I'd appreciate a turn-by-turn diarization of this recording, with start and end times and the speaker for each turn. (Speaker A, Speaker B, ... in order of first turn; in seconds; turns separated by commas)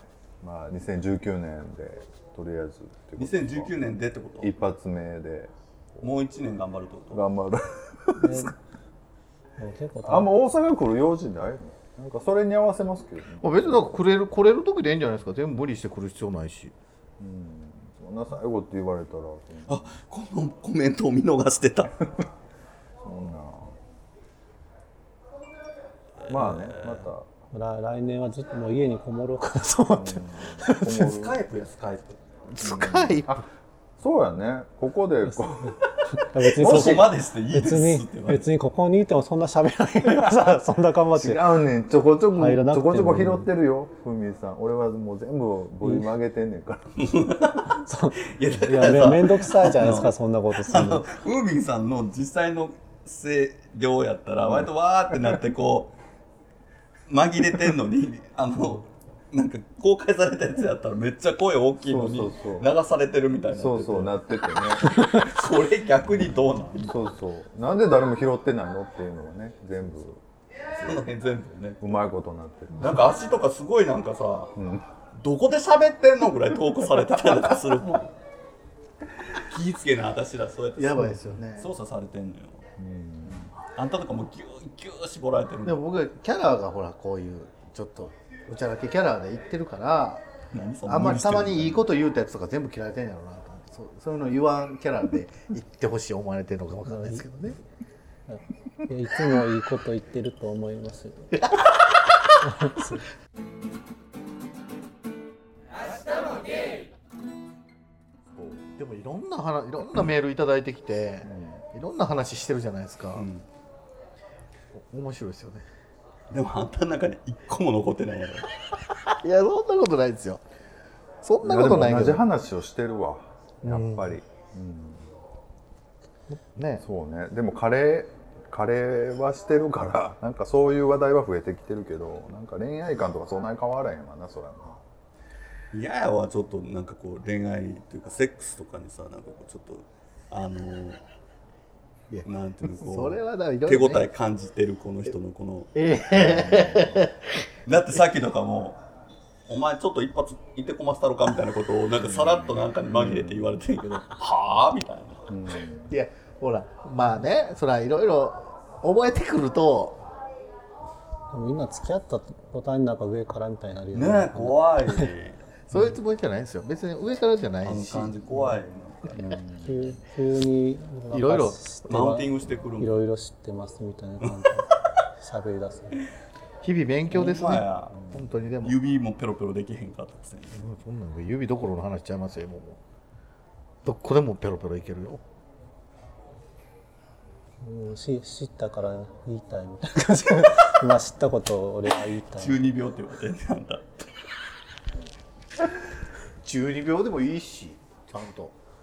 Speaker A: 0.4-3.7, Speaker B: 3.2-4.5, Speaker A: 4.4-6.1, Speaker B: 6.0-7.2, Speaker A: 7.1-8.5, Speaker C: 8.2-8.5, Speaker C: 9.6-10.3, Speaker A: 10.0-14.0, Speaker D: 13.4-16.7, Speaker A: 17.2-19.9, Speaker B: 19.7-22.0, Speaker A: 23.0-23.8, Speaker B: 26.2-27.1, Speaker A: 26.3-27.3, Speaker C: 27.5-31.2, Speaker A: 29.8-31.4, Speaker B: 30.8-32.2, Speaker D: 32.5-33.4, Speaker A: 32.6-33.5, Speaker A: 34.0-35.7, Speaker C: 36.1-41.5, Speaker B: 36.4-38.5, Speaker A: 41.1-47.0, Speaker C: 42.3-43.5, Speaker C: 45.8-46.1, Speaker B: 47.0-55.9, Speaker C: 47.6-51.0, Speaker A: 54.4-54.7, Speaker B: 57.1-67.2, Speaker A: 61.8-62.7, Speaker A: 63.5-65.0, Speaker A: 66.8-70.2, Speaker A: 70.8-71.1, Speaker B: 70.8-71.8, Speaker A: 71.8-73.0, Speaker B: 72.7-74.5, Speaker A: 74.5-74.8, Speaker B: 75.1-78.1, Speaker B: 79.3-82.7, Speaker D: 80.8-81.7, Speaker A: 82.8-83.5, Speaker B: 83.7-85.8, Speaker D: 85.6-90.2, Speaker B: 90.5-91.8, Speaker D: 90.8-97.6, Speaker C: 96.8-97.2, Speaker C: 98.3-101.3, Speaker D: 101.5-101.8, Speaker C: 102.4-103.0, Speaker A: 108.3-108.6, Speaker D: 108.8-113.3, Speaker A: 111.2-111.6, Speaker B: 113.1-113.5, Speaker D: 114.7-115.7, Speaker B: 116.3-118.5, Speaker D: 119.2-120.4, Speaker D: 121.2-122.2, Speaker A: 121.4-125.0, Speaker D: 123.6-124.1, Speaker D: 126.3-126.8, Speaker A: 126.8-134.8, Speaker B: 135.7-141.0, Speaker D: 142.1-144.1, Speaker B: 142.2-145.7, Speaker D: 145.7-147.4, Speaker A: 146.1-147.0, Speaker B: 147.7-148.8, Speaker B: 149.5-155.2, Speaker A: 152.0-153.6, Speaker A: 155.3-155.9, Speaker D: 155.9-160.0, Speaker C: 161.3-165.1, Speaker B: 163.9-165.4, Speaker D: 165.7-168.1, Speaker B: 167.6-169.4, Speaker A: 169.2-170.0, Speaker C: 169.2-176.1, Speaker D: 171.1-171.6, Speaker B: 171.8-172.9, Speaker B: 174.2-174.7, Speaker D: 176.6-178.8, Speaker B: 177.1-178.0, Speaker B: 178.6-180.6, Speaker D: 180.5-182.8, Speaker D: 183.8-185.2, Speaker C: 187.6-192.6, Speaker B: 192.2-194.1, Speaker D: 196.4-198.5